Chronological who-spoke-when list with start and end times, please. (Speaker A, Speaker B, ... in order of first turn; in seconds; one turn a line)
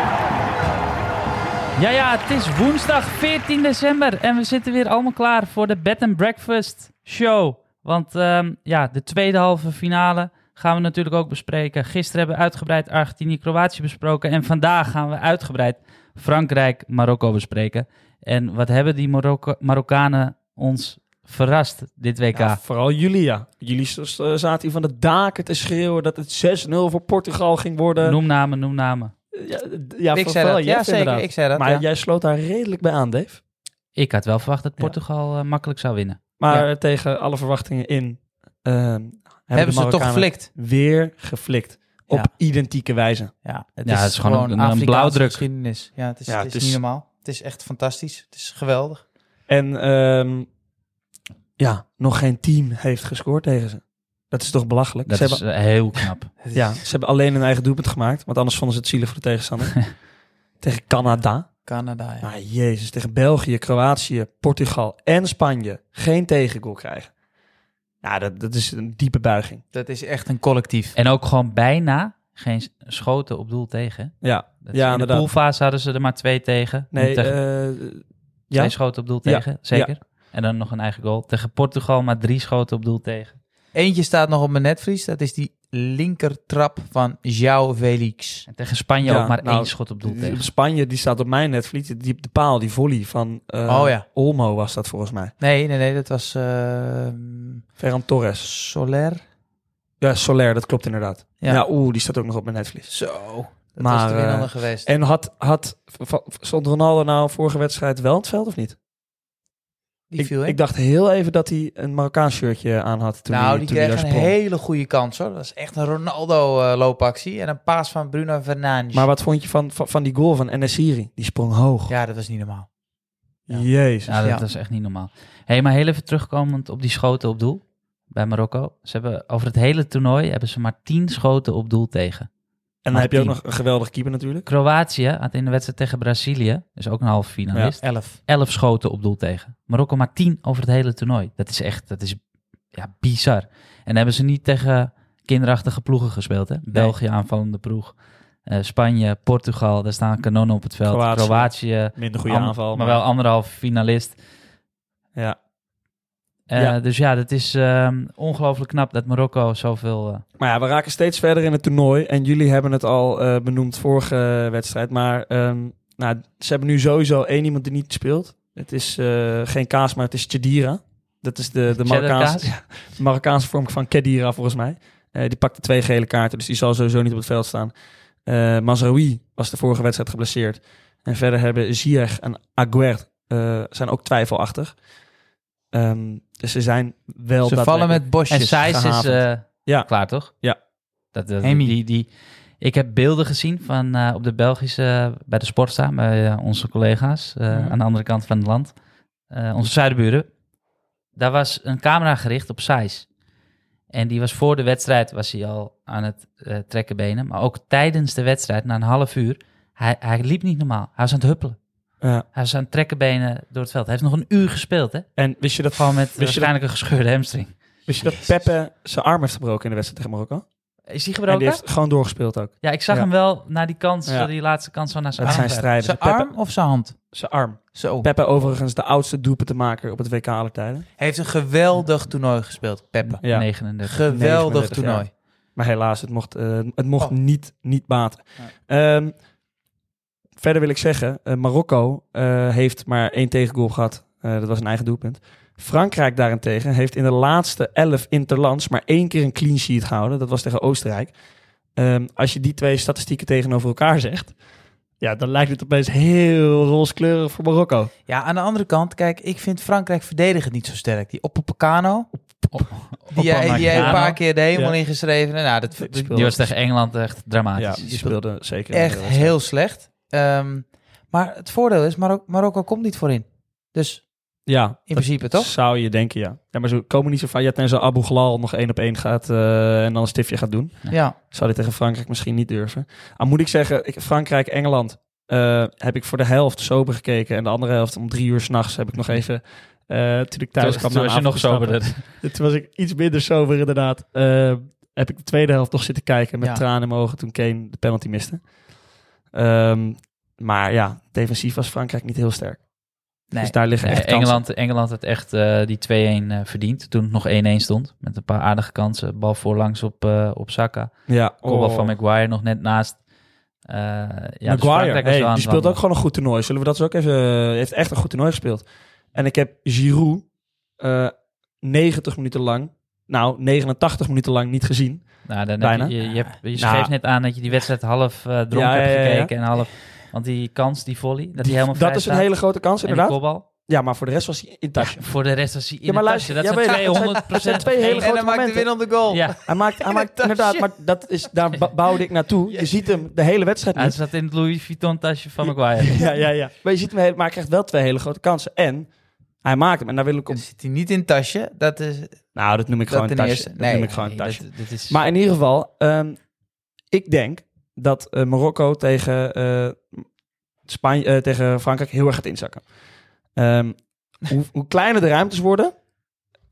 Speaker A: 1.8-22.6
Speaker B: 22.4-28.2
Speaker A: 28.0-29.1
Speaker B: 29.3-33.4
Speaker C: 30.1-31.9
Speaker A: 34.0-36.7
Speaker B: 36.4-43.3
Speaker C: 39.5-40.5
Speaker C: 43.4-49.0
Speaker A: 43.9-45.5
Speaker B: 46.3-46.8
Speaker B: 49.5-50.5
Speaker B: 51.6-55.6
Speaker A: 55.1-56.3
Speaker C: 56.4-56.8
Speaker B: 56.5-60.0
Speaker B: 60.6-61.5
Speaker C: 61.6-62.3
Speaker B: 62.2-67.1
Speaker B: 68.0-69.6
Speaker C: 69.7-71.0
Speaker A: 71.0-77.4
Speaker B: 74.2-75.3
Speaker B: 76.9-79.9
Speaker A: 78.5-83.4
Speaker C: 83.7-88.5
Speaker A: 88.5-90.5
Speaker B: 89.0-95.3
Speaker C: 93.7-94.1
Speaker C: 95.4-97.7
Speaker B: 97.8-98.5
Speaker C: 98.4-99.2
Speaker B: 100.0-103.0
Speaker C: 101.4-101.7
Speaker C: 102.9-104.9
Speaker B: 103.8-108.8
Speaker C: 110.1-110.6
Speaker B: 110.2-114.4
Speaker C: 113.3-119.1
Speaker B: 118.9-122.0
Speaker C: 121.9-122.7
Speaker B: 123.5-124.2
Speaker A: 124.1-132.3
Speaker B: 132.8-134.5
Speaker A: 132.9-133.4
Speaker A: 134.5-142.2
Speaker B: 137.5-138.1
Speaker C: 137.8-138.1
Speaker A: 142.7-154.2
Speaker B: 150.8-153.0
Speaker A: 156.5-160.2
Speaker B: 160.4-184.8
Speaker A: 171.7-172.5
Speaker B: 185.7-188.1
Speaker C: 187.4-188.8
Speaker A: 188.3-190.3
Speaker B: 188.6-190.6
Speaker A: 191.1-198.8
Speaker C: 191.4-191.8
Speaker C: 197.5-197.8
Speaker A: 199.3-200.3
Speaker A: 201.2-203.1
Speaker A: 203.9-211.6
Speaker A: 212.3-215.1
Speaker B: 215.2-216.5
Speaker A: 215.7-217.6
Speaker B: 217.9-220.5
Speaker C: 218.0-218.4
Speaker A: 220.9-221.6
Speaker B: 221.3-223.1
Speaker A: 222.6-225.7
Speaker B: 225.2-226.3
Speaker C: 225.2-227.2
Speaker B: 227.1-230.9
Speaker C: 227.7-228.1
Speaker C: 231.0-235.1
Speaker A: 233.1-234.0
Speaker B: 233.2-239.2
Speaker B: 240.4-251.2
Speaker B: 251.8-254.4
Speaker B: 255.0-257.9
Speaker C: 258.1-262.1
Speaker B: 262.4-262.8
Speaker A: 262.5-264.2
Speaker C: 263.1-266.4
Speaker B: 263.5-264.8
Speaker B: 265.8-266.4
Speaker A: 266.1-267.9
Speaker B: 267.6-269.4
Speaker C: 267.8-274.2
Speaker B: 274.4-298.6
Speaker C: 274.9-275.5
Speaker C: 280.9-281.2
Speaker A: 290.6-292.1
Speaker B: 299.3-302.7
Speaker B: 303.3-304.4
Speaker C: 303.3-303.6
Speaker A: 303.8-313.0
Speaker B: 311.1-311.9
Speaker A: 313.6-315.8
Speaker B: 314.5-326.0
Speaker A: 325.2-333.5
Speaker C: 326.0-326.4
Speaker B: 326.6-326.9
Speaker B: 328.5-329.3
Speaker B: 331.4-344.0
Speaker A: 334.8-338.1
Speaker C: 336.7-340.7
Speaker A: 339.1-339.4
Speaker A: 343.8-346.0
Speaker B: 345.4-350.4
Speaker C: 346.0-346.3
Speaker C: 350.3-352.3
Speaker B: 352.3-356.2
Speaker C: 352.9-354.1
Speaker A: 353.8-355.1
Speaker B: 356.9-360.1
Speaker B: 360.6-362.8
Speaker B: 363.3-365.7